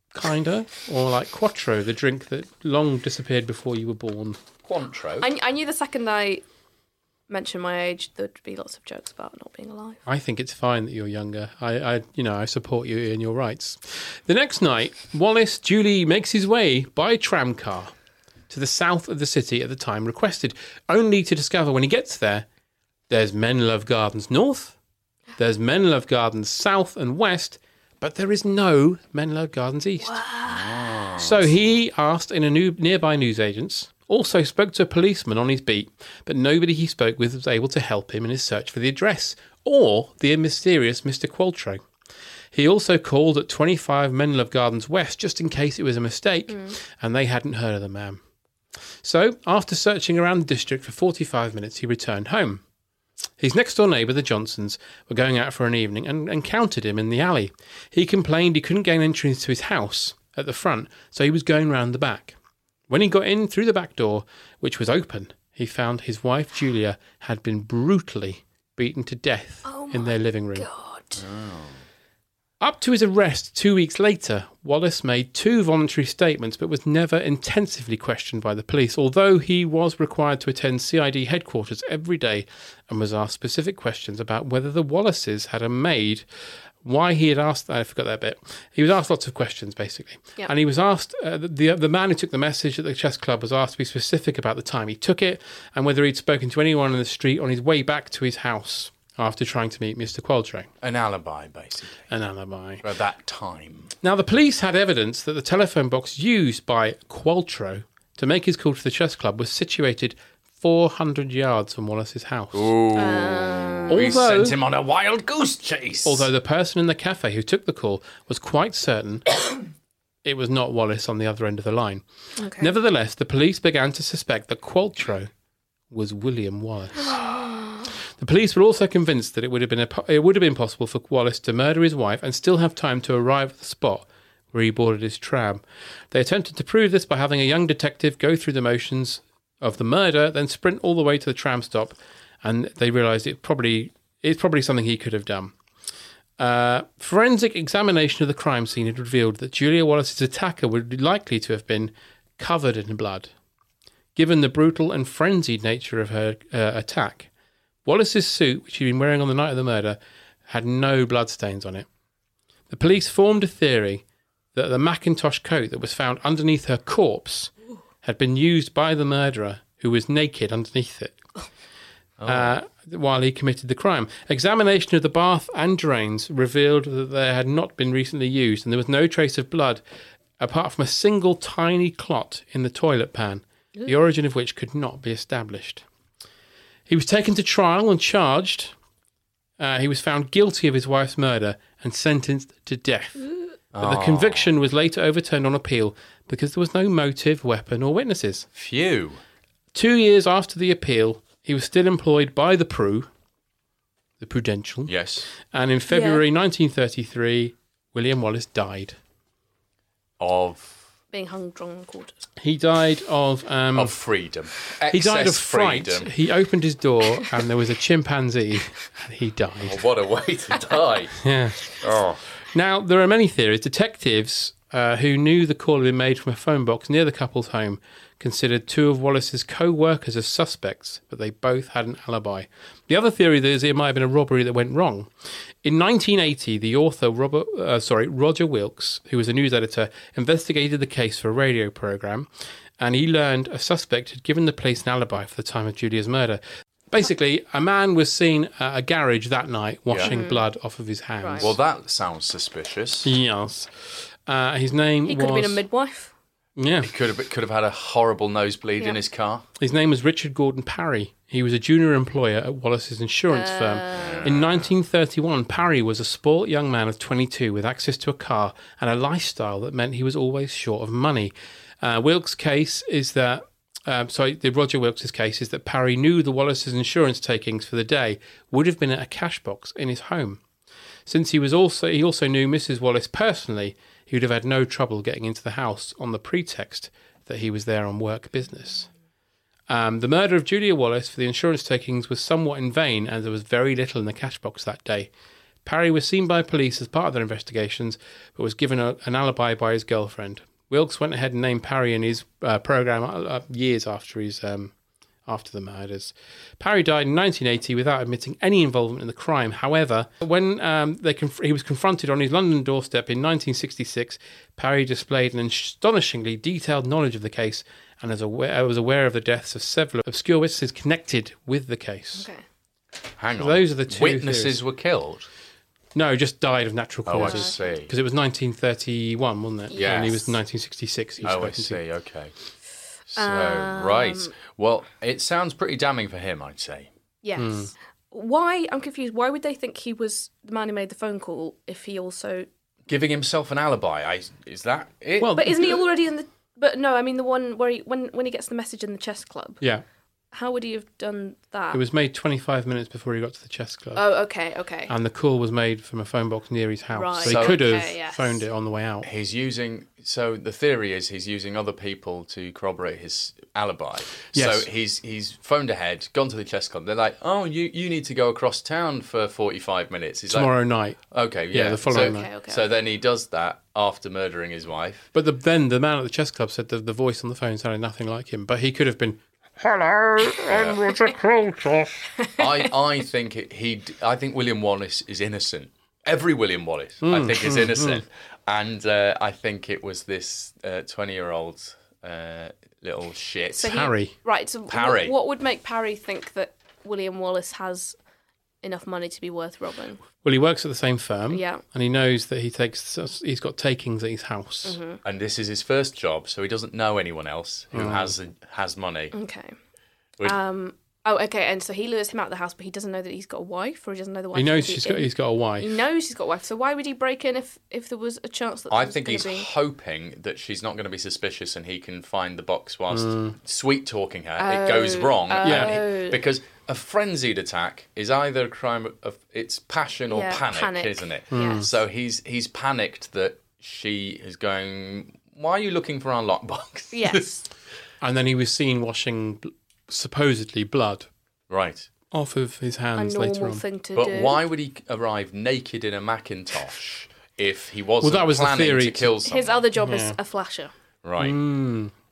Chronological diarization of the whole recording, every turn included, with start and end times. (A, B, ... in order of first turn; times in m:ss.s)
0:00.1-0:04.4 A
0:04.6-0:05.3 B
0:05.2-0:06.4 C
0:07.3-0:10.0 C
0:10.0-0:17.9 A
0:18.5-0:22.4 A
0:23.1-0:24.7 A
0:25.4-0:30.2 A
0:30.0-0:30.8 C
0:30.4-0:31.5 B
0:31.2-0:41.8 A
0:42.5-0:48.2 A
0:46.5-0:46.8 C
0:49.0-0:52.6 A
0:53.4-1:02.4 A
1:02.9-1:10.7 A
1:09.6-1:11.2 C
1:11.2-1:11.8 B
1:12.6-1:26.2 A
1:26.8-1:40.7 A
1:40.8-1:42.0 B
1:42.1-1:42.8 A
1:42.8-1:43.9 B
1:44.0-1:52.7 A
1:52.5-1:56.3 B
1:52.9-1:54.0 C
1:53.9-1:54.6 A
1:56.0-1:59.2 A
2:00.2-2:02.0 A
2:02.4-2:02.7 C
2:02.6-2:05.3 A
2:05.9-2:07.2 A
2:07.1-2:07.8 C
2:08.2-2:25.5 A
2:26.4-2:33.3 A
2:34.1-2:37.3 A
2:37.8-2:41.8 A
2:42.7-2:44.0 A
2:44.5-2:47.5 A
2:48.0-2:51.2 A
2:52.2-2:52.6 B
2:52.2-2:59.8 A
3:00.4-3:05.8 A
3:06.9-3:08.7 A
3:09.6-3:13.3 A
3:13.7-3:14.5 B
3:13.8-3:18.5 A
3:18.5-3:19.2 B
3:19.7-3:23.1 A
3:24.2-3:29.0 A
3:24.9-3:25.3 B
3:25.9-3:26.2 C
3:30.2-3:30.8 B
3:31.1-3:32.2 C
3:32.4-3:33.9 A
3:33.7-3:36.1 B
3:34.9-3:39.8 A
3:39.6-3:41.2 B
3:41.2-3:41.7 A
3:41.8-3:42.2 B
3:42.5-3:55.1 A
3:55.6-4:11.5 A
4:10.0-4:10.4 C
4:11.2-4:11.5 C
4:11.4-4:13.1 B
4:13.0-4:15.6 A
4:15.0-4:16.1 C
4:16.6-4:16.9 A
4:16.8-4:19.4 B
4:19.6-4:40.4 A
4:23.3-4:24.3 C
4:23.9-4:24.7 B
4:41.1-4:48.9 A
4:49.7-4:55.1 A
4:55.6-5:04.7 A
5:05.2-5:22.3 A
5:22.2-5:22.4 C
5:23.2-5:25.3 B
5:23.4-5:24.6 A
5:25.9-5:31.8 A
5:27.1-5:27.9 B
5:27.2-5:27.6 C
5:29.7-5:30.2 C
5:29.8-5:30.3 B
5:31.2-5:32.3 B
5:33.1-5:36.9 B
5:33.2-5:34.3 C
5:37.2-5:42.5 C
5:37.4-5:37.7 A
5:42.9-5:45.5 B
5:45.2-5:45.7 A
5:45.3-5:49.6 C
5:50.3-5:51.8 C
5:51.7-5:54.0 A
5:53.9-5:54.9 C
5:54.9-5:59.1 A
5:56.9-5:58.4 C
5:57.2-5:57.6 B
5:59.0-6:15.1 B
6:04.3-6:04.7 A
6:10.3-6:11.0 A
6:11.5-6:12.3 A
6:11.9-6:12.7 C
6:15.1-6:19.2 A
6:19.8-6:21.8 A
6:20.5-6:20.9 B
6:22.4-6:33.7 B
6:27.0-6:28.0 A
6:33.6-6:38.0 C
6:33.6-6:34.1 A
6:34.7-6:35.1 B
6:38.6-6:40.0 C
6:40.2-6:44.8 A
6:41.3-6:41.6 C
6:44.6-6:45.0 C
6:45.0-6:49.1 B
6:47.7-6:48.1 A
6:49.1-6:49.6 C
6:50.2-6:59.5 C
6:54.3-6:55.7 A
6:58.7-7:17.3 B
7:02.9-7:03.4 A
7:04.4-7:06.2 C
7:05.4-7:05.8 A
7:10.1-7:11.6 C
7:11.3-7:11.7 A
7:16.9-7:17.4 C
7:18.0-7:21.1 A
7:21.5-7:21.9 B
7:22.1-7:23.6 A
7:23.0-7:24.4 C
7:23.9-7:29.6 B
7:28.0-7:29.1 A
7:29.2-7:30.7 C
7:29.8-7:30.2 A
7:31.0-7:31.4 B
7:31.2-7:31.9 A